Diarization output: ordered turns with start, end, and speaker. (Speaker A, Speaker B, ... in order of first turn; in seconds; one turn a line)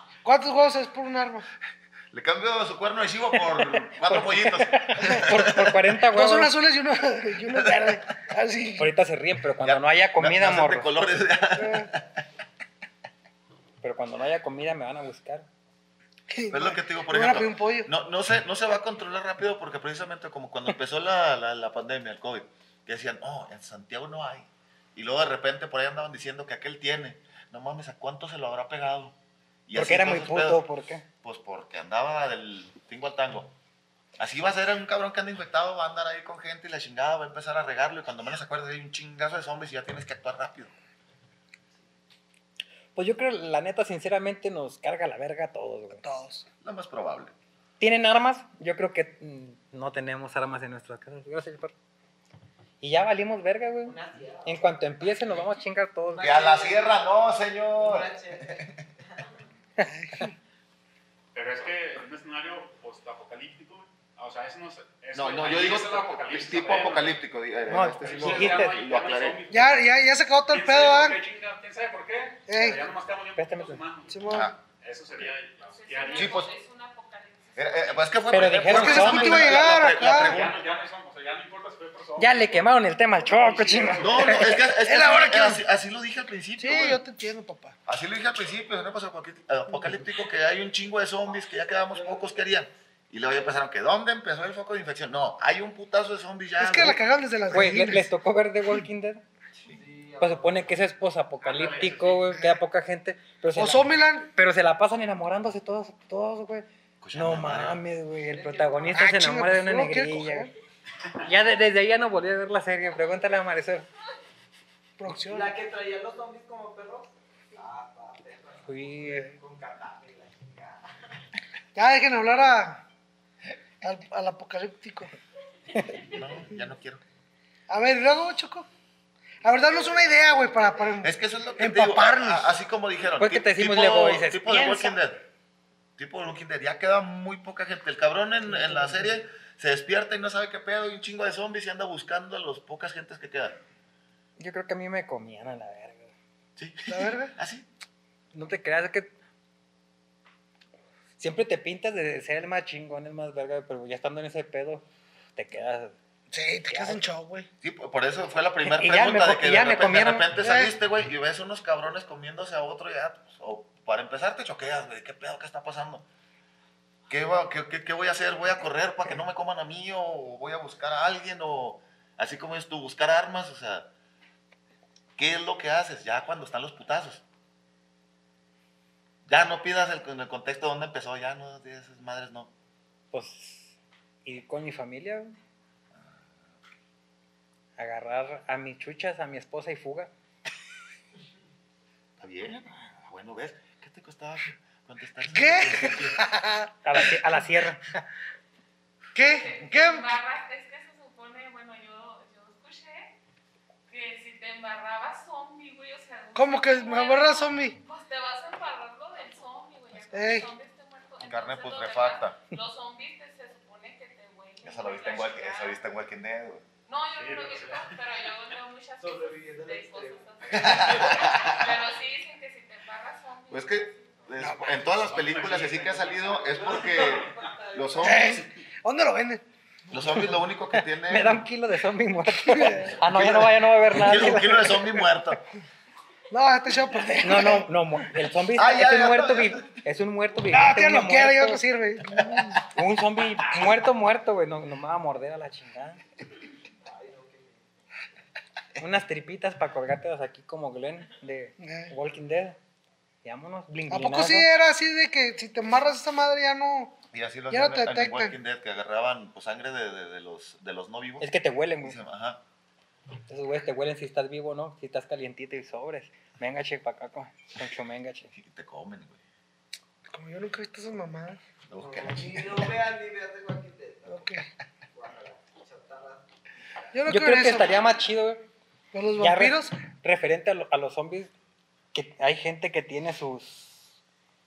Speaker A: 0.2-1.4
Speaker B: 2.1-5.8
Speaker C: 4.0-6.5
Speaker A: 5.0-5.3
Speaker A: 6.1-8.9
Speaker B: 7.5-8.0
Speaker C: 8.8-10.9
Speaker B: 9.6-12.2
Speaker A: 11.6-11.9
Speaker C: 13.8-15.5
Speaker A: 16.3-17.9
Speaker B: 16.5-29.1
Speaker B: 29.7-30.6
Speaker C: 29.7-31.0
Speaker B: 31.2-33.5
Speaker B: 34.2-40.7
Speaker C: 43.0-46.0
Speaker A: 46.0-46.5
Speaker B: 46.6-47.3
Speaker C: 47.8-51.7
Speaker C: 52.8-56.3
Speaker D: 53.8-54.7
Speaker D: 56.1-57.0
Speaker B: 56.2-58.7
Speaker D: 57.8-59.4
Speaker C: 59.8-60.3
Speaker A: 59.8-60.3
Speaker E: 61.3-67.2
Speaker B: 65.1-69.4
Speaker C: 67.7-68.8
Speaker E: 67.8-69.9
Speaker A: 69.5-71.2
Speaker E: 70.5-76.5
Speaker A: 72.5-72.9
Speaker C: 73.3-73.8
Speaker A: 74.1-74.5
Speaker B: 74.3-74.5
Speaker F: 75.7-78.4
Speaker B: 76.1-76.5
Speaker B: 77.5-80.6
Speaker C: 78.3-79.6
Speaker A: 78.6-80.5
Speaker E: 79.6-82.6
Speaker C: 82.2-84.5
Speaker E: 83.2-84.5
Speaker B: 84.0-87.0
Speaker A: 84.7-85.6
Speaker A: 86.6-87.8
Speaker B: 87.8-97.0
Speaker D: 91.9-92.2
Speaker A: 96.6-98.1
Speaker C: 97.5-99.2
Speaker D: 99.7-100.8
Speaker C: 100.2-110.5
Speaker E: 101.4-102.4
Speaker A: 103.5-104.3
Speaker B: 107.0-107.8
Speaker D: 108.2-109.1
Speaker A: 108.9-110.5
Speaker C: 111.2-113.8
Speaker A: 115.0-115.5
Speaker D: 115.2-120.9
Speaker C: 118.7-119.3
Speaker A: 121.8-122.8
Speaker A: 123.8-125.1
Speaker C: 125.7-126.0
Speaker B: 126.0-127.0
Speaker A: 127.7-128.7
Speaker A: 129.4-132.5
Speaker B: 131.0-135.2
Speaker C: 133.2-135.0
Speaker B: 136.0-143.6
Speaker C: 138.5-139.1
Speaker C: 144.4-146.1
Speaker B: 146.6-147.7
Speaker A: 146.9-147.3
Speaker C: 148.3-149.1
Speaker C: 151.2-154.8
Speaker C: 155.3-155.9
Speaker A: 156.3-157.5
Speaker C: 156.7-157.0
Speaker B: 157.6-166.1
Speaker C: 158.6-160.3
Speaker A: 160.4-160.7
Speaker B: 167.1-173.9
Speaker B: 175.2-177.2
Speaker B: 179.2-182.5
Speaker C: 183.1-185.3
Speaker C: 187.8-190.1
Speaker B: 192.2-196.2
Speaker A: 195.3-197.4
Speaker C: 196.8-198.0
Speaker A: 199.1-200.1
Speaker F: 199.2-203.1
Speaker F: 203.9-215.8
Speaker A: 206.3-207.8
Speaker A: 210.1-210.5
Speaker B: 211.2-212.4
Speaker B: 214.6-216.6
Speaker F: 216.9-224.1
Speaker E: 217.1-217.9
Speaker D: 219.0-221.2
Speaker B: 220.5-221.7
Speaker B: 223.5-228.4
Speaker A: 224.4-224.8
Speaker E: 224.9-226.0
Speaker D: 225.4-228.3
Speaker A: 228.0-230.3
Speaker B: 229.9-231.4
Speaker C: 231.0-235.0
Speaker A: 232.3-233.0
Speaker B: 233.0-235.4
Speaker A: 236.3-237.7
Speaker C: 237.2-241.6
Speaker B: 238.5-239.7
Speaker A: 240.5-242.7
Speaker B: 242.2-242.5
Speaker C: 242.7-246.0
Speaker D: 246.8-247.7
Speaker C: 248.8-252.6
Speaker A: 251.6-251.9
Speaker C: 253.2-254.5
Speaker A: 253.9-257.0
Speaker B: 257.1-262.4
Speaker A: 257.5-258.3
Speaker C: 261.2-262.0
Speaker C: 263.3-268.3
Speaker B: 268.3-269.2
Speaker A: 270.1-271.4
Speaker B: 271.7-272.7
Speaker D: 271.8-274.4
Speaker A: 274.1-274.5
Speaker D: 274.9-276.2
Speaker A: 276.9-277.7
Speaker C: 277.1-278.5
Speaker A: 278.9-279.7
Speaker C: 279.2-281.3
Speaker C: 281.9-283.9